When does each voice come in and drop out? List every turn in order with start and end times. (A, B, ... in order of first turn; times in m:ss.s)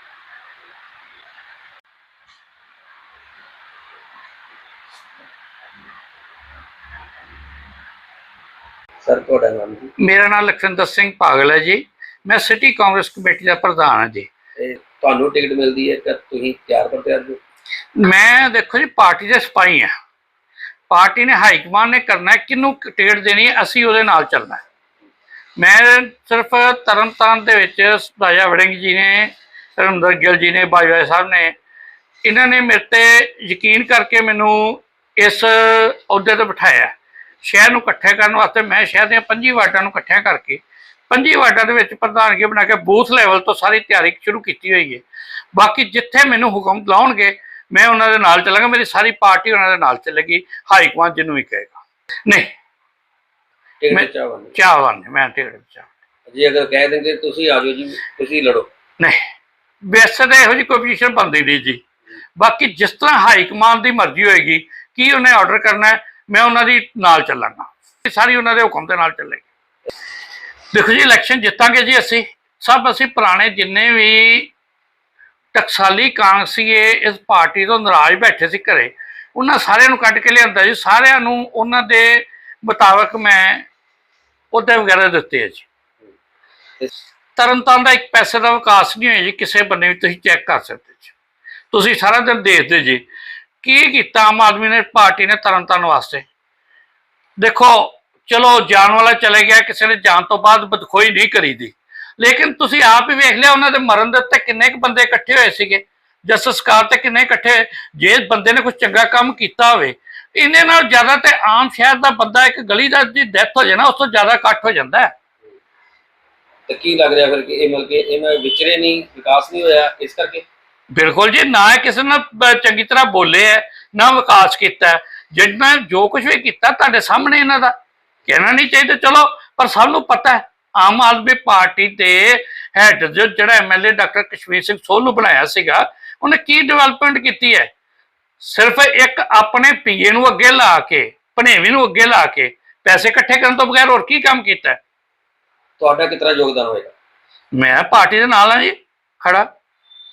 0:09.0-0:09.9 A
0:10.0-0:14.3 B
0:14.6-0:17.4 A
0:18.0-0:19.9 B
0:20.9-0:24.6 B
0:25.6-0:31.5 B
0:32.2-0:45.0 B
0:45.5-0:52.5 B
0:53.8-0:54.6 A
0:53.9-0:55.9 B
0:56.3-0:58.7 A
0:59.8-1:01.8 B
1:02.4-1:09.5 B
1:10.7-1:14.5 B
1:15.5-1:23.7 B
1:24.5-1:25.6 B
1:27.4-1:31.1 B
1:31.7-1:33.0 B
1:33.6-1:36.2 B
1:37.4-1:55.1 B
1:56.7-2:00.4 A
2:00.9-2:07.7 B
2:08.3-2:17.7 B
2:18.4-2:24.8 B
2:25.8-2:26.9 A
2:27.6-2:29.4 B